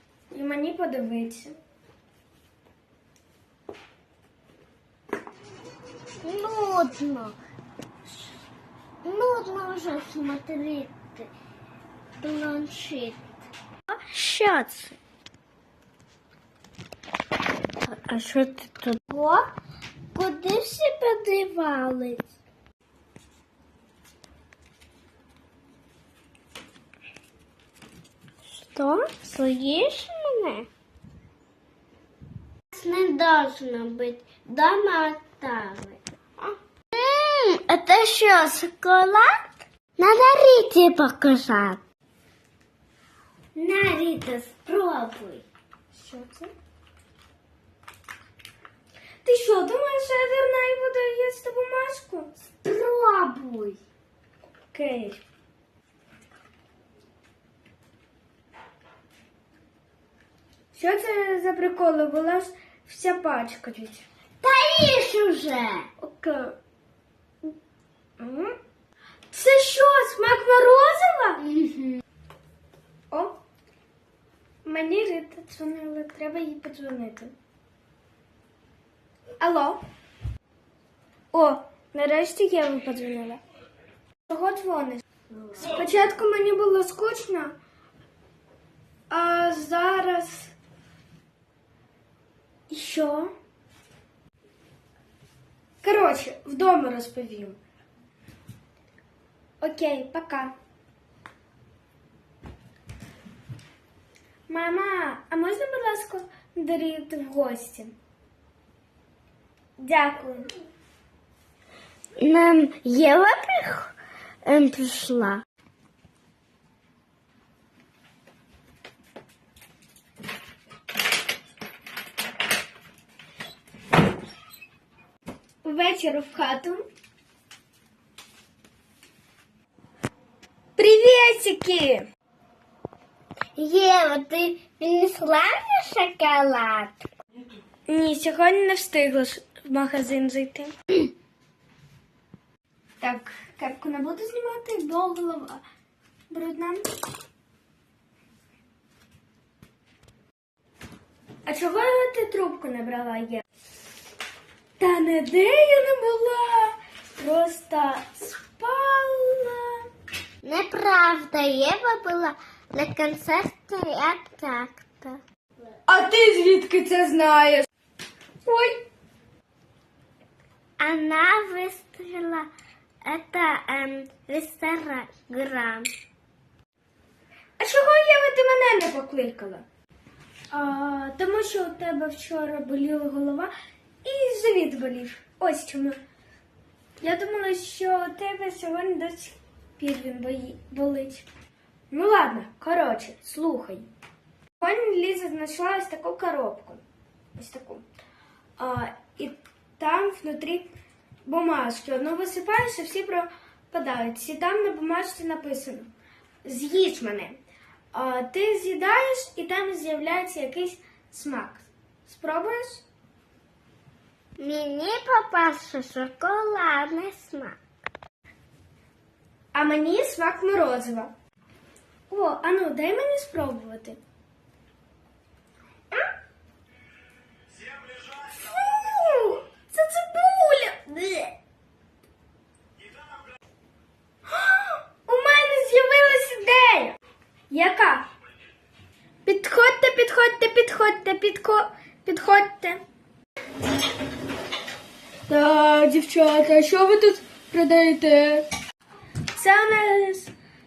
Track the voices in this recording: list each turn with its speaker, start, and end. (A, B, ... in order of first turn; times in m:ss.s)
0:00.3-0:01.6 A
0:06.2-0:07.4 B
0:09.0-0:11.3 B
0:12.2-0:13.2 B
0:13.9-0:14.9 B
0:17.8-0:19.5 B
0:20.1-0:22.3 B
0:28.6-0:30.7 B
0:32.7-0:39.4 B
0:40.0-0:41.8 B
0:43.5-0:45.4 B
0:45.9-0:46.5 A
0:49.2-0:52.4 A
0:52.6-0:53.8 B
0:54.7-0:55.2 A
1:00.7-1:04.0 A
1:04.4-1:05.9 B
1:06.0-1:06.6 A
1:08.2-1:08.6 A
1:09.3-1:11.4 A
1:11.4-1:12.0 B
1:13.1-1:13.4 A
1:14.6-1:17.3 A
1:19.4-1:19.8 A
1:21.3-1:23.4 A
1:24.3-1:25.0 A
1:25.6-1:27.5 A
1:29.1-1:30.5 A
1:32.7-1:33.3 A
1:35.8-1:37.6 A
1:39.6-1:40.5 A
1:44.5-1:47.9 A
1:49.8-1:50.5 A
1:52.2-1:53.9 B
1:54.4-1:55.4 B
2:05.6-2:06.8 A
2:10.8-2:12.1 A
2:13.6-2:17.0 B
2:17.9-2:20.7 A
2:23.0-2:25.6 A
2:26.3-2:26.8 A
2:31.4-2:33.4 A
2:34.8-2:39.8 A
2:40.4-2:45.2 B
2:45.8-2:47.7 A
2:48.4-2:48.8 A
2:50.8-2:52.5 B
2:53.0-2:55.9 B
2:57.6-2:59.6 A
3:00.5-3:03.5 A
3:04.0-3:06.0 A
3:07.0-3:11.3 A
3:11.9-3:13.9 A
3:14.6-3:16.8 A
3:17.3-3:17.8 A
3:18.6-3:20.7 A
3:21.2-3:25.9 A
3:26.4-3:27.4 A
3:27.9-3:32.8 A
3:34.4-3:37.6 B
3:39.5-3:41.1 A
3:42.1-3:44.0 A
3:48.1-3:51.3 A
3:54.3-3:57.0 A
3:57.5-3:58.1 A
3:59.2-4:02.8 A
4:05.3-4:08.4 A
4:09.3-4:10.3 A